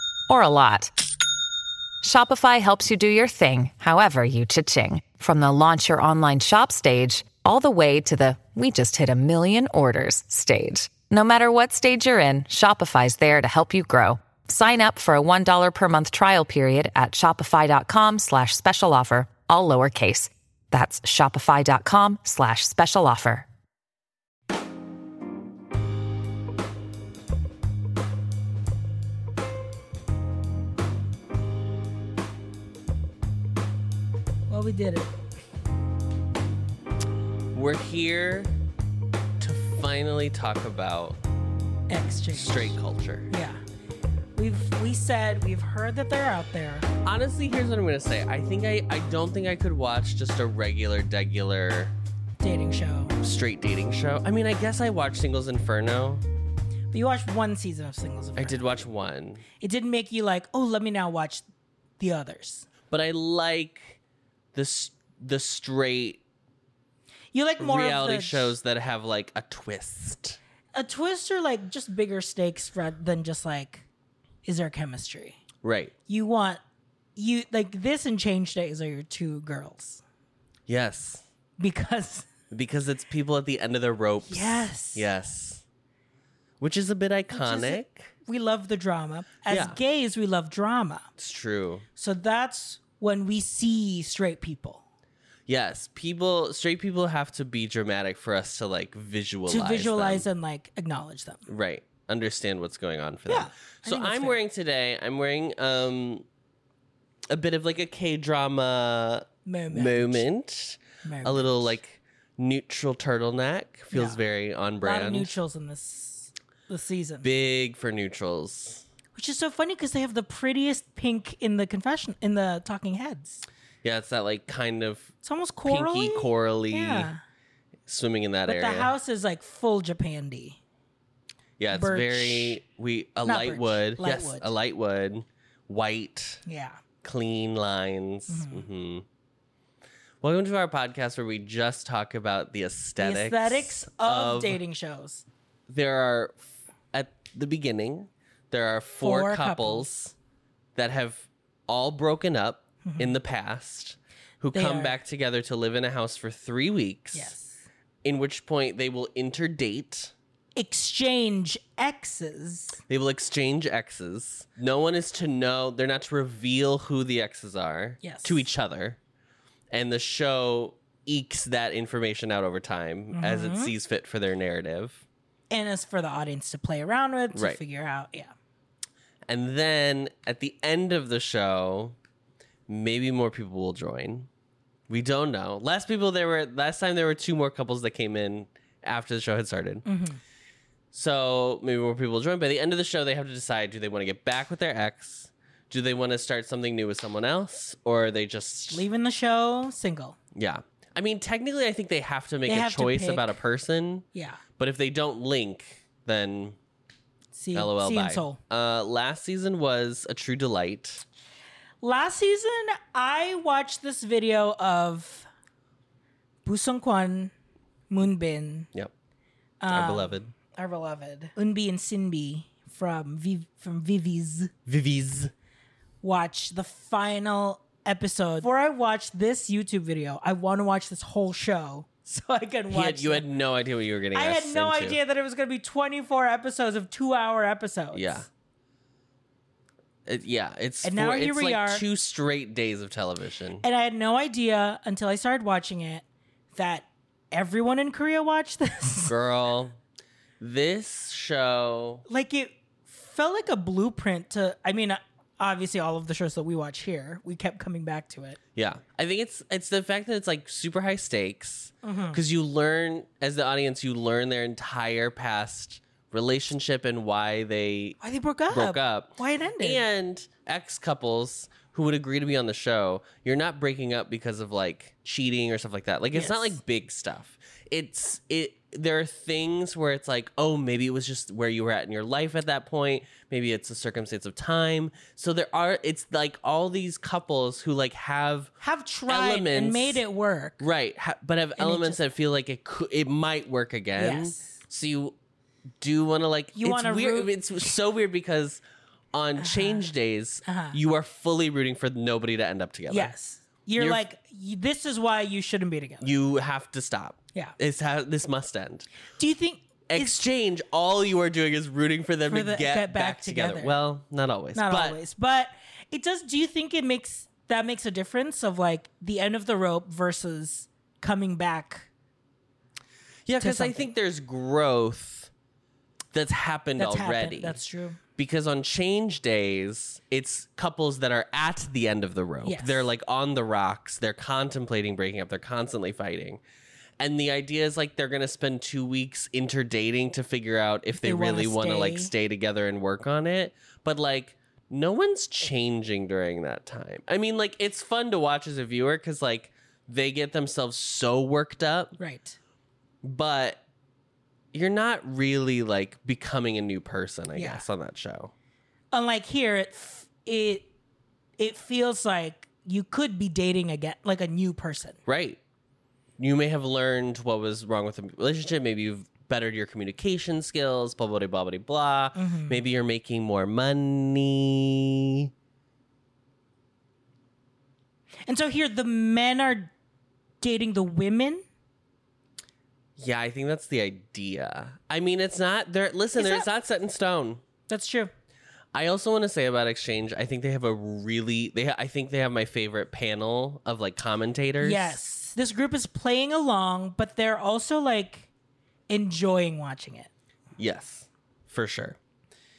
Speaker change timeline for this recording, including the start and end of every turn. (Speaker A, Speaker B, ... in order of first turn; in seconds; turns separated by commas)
Speaker A: 0.3-0.9, Speaker A: 2.0-23.5, Speaker B: 34.5-35.1, Speaker C: 37.5-38.5, Speaker C: 39.4-41.2, Speaker B: 41.9-42.8, Speaker C: 42.3-43.3, Speaker B: 43.3-43.6, Speaker B: 44.4-46.9, Speaker C: 47.0-51.9, Speaker B: 52.4-53.2, Speaker C: 53.2-56.2, Speaker B: 56.9-58.7, Speaker C: 58.4-59.4, Speaker B: 59.6-61.4, Speaker B: 62.0-62.7, Speaker C: 62.9-64.0, Speaker C: 64.5-66.2, Speaker B: 67.3-68.5, Speaker C: 67.6-70.4, Speaker B: 70.7-73.8, Speaker B: 74.4-75.4, Speaker C: 75.6-75.9, Speaker B: 76.1-76.6, Speaker B: 77.2-80.0, Speaker C: 80.7-81.2, Speaker B: 81.6-82.3, Speaker C: 82.5-85.6, Speaker B: 84.2-85.1, Speaker C: 86.6-88.1, Speaker B: 87.3-91.1, Speaker C: 89.5-89.8, Speaker C: 91.2-91.8, Speaker B: 92.0-94.8, Speaker C: 95.5-100.2, Speaker B: 99.5-101.4, Speaker C: 101.5-106.2, Speaker B: 103.3-104.4, Speaker C: 107.3-115.3, Speaker B: 109.5-110.3, Speaker B: 111.0-111.8, Speaker B: 113.9-114.2, Speaker B: 114.8-117.2, Speaker C: 117.2-118.8, Speaker B: 119.1-123.4, Speaker C: 123.8-125.1, Speaker B: 125.2-127.2, Speaker C: 125.7-127.1, Speaker C: 127.9-128.9, Speaker B: 128.4-130.6, Speaker C: 131.6-136.4, Speaker B: 131.7-132.6, Speaker B: 133.2-134.5, Speaker B: 136.4-136.8, Speaker C: 137.0-139.1, Speaker B: 138.3-138.7, Speaker C: 140.2-144.6, Speaker B: 143.0-145.2, Speaker C: 145.7-146.4, Speaker C: 146.9-150.1, Speaker B: 149.0-149.9, Speaker C: 150.8-157.3, Speaker B: 152.8-153.1, Speaker B: 154.5-155.0, Speaker B: 157.1-157.6, Speaker C: 158.0-160.1, Speaker B: 160.6-162.8, Speaker C: 162.9-169.0, Speaker B: 168.0-168.4, Speaker C: 169.7-175.0, Speaker B: 173.1-173.7, Speaker B: 175.5-178.3, Speaker C: 177.3-177.6, Speaker C: 179.3-181.9, Speaker C: 182.7-184.3, Speaker C: 184.9-189.8, Speaker B: 189.8-190.2, Speaker C: 190.9-198.8, Speaker B: 198.7-200.2, Speaker C: 200.3-204.1, Speaker B: 202.4-203.4, Speaker B: 204.1-204.4, Speaker C: 204.6-206.6, Speaker B: 207.3-208.4, Speaker C: 207.5-211.0, Speaker B: 211.8-215.3, Speaker B: 216.4-217.3, Speaker B: 217.9-218.7, Speaker B: 219.6-224.5, Speaker C: 219.7-220.3, Speaker C: 224.7-225.3, Speaker B: 226.0-233.2, Speaker C: 232.7-235.0, Speaker B: 234.1-238.2, Speaker C: 237.9-238.3, Speaker C: 240.1-243.6, Speaker B: 240.8-241.8, Speaker B: 243.6-249.1, Speaker C: 249.1-249.8, Speaker C: 250.4-252.0, Speaker B: 252.1-258.4, Speaker C: 258.5-268.0, Speaker B: 261.8-262.2, Speaker B: 268.0-269.8, Speaker C: 268.5-288.5, Speaker B: 276.1-276.6, Speaker B: 288.6-290.6, Speaker C: 289.1-290.0, Speaker C: 290.6-295.1, Speaker B: 291.6-292.0, Speaker B: 294.0-294.6, Speaker C: 295.8-298.6, Speaker B: 296.5-297.3, Speaker C: 299.1-303.1, Speaker B: 299.4-299.9, Speaker B: 300.4-300.8, Speaker B: 302.9-306.1, Speaker C: 303.8-304.0, Speaker C: 306.0-308.9, Speaker B: 309.2-310.2, Speaker C: 309.9-315.0, Speaker B: 312.3-313.8, Speaker B: 314.5-321.9, Speaker C: 323.2-325.3, Speaker B: 323.4-323.9, Speaker C: 326.1-327.6, Speaker B: 326.8-328.0, Speaker C: 328.2-336.4, Speaker B: 332.4-332.9, Speaker C: 337.0-351.9, Speaker B: 340.9-342.1, Speaker B: 352.0-352.4, Speaker C: 353.0-353.6, Speaker C: 354.5-358.3, Speaker B: 357.3-357.6, Speaker B: 358.9-360.7, Speaker B: 361.4-365.0, Speaker C: 365.1-365.4, Speaker C: 366.2-375.3, Speaker B: 372.1-372.6, Speaker B: 378.2-379.7, Speaker B: 380.4-381.4, Speaker C: 383.0-387.4, Speaker B: 386.2-386.4, Speaker B: 387.7-388.1, Speaker C: 388.7-395.0, Speaker B: 394.6-398.3, Speaker B: 398.9-400.1, Speaker C: 400.6-402.0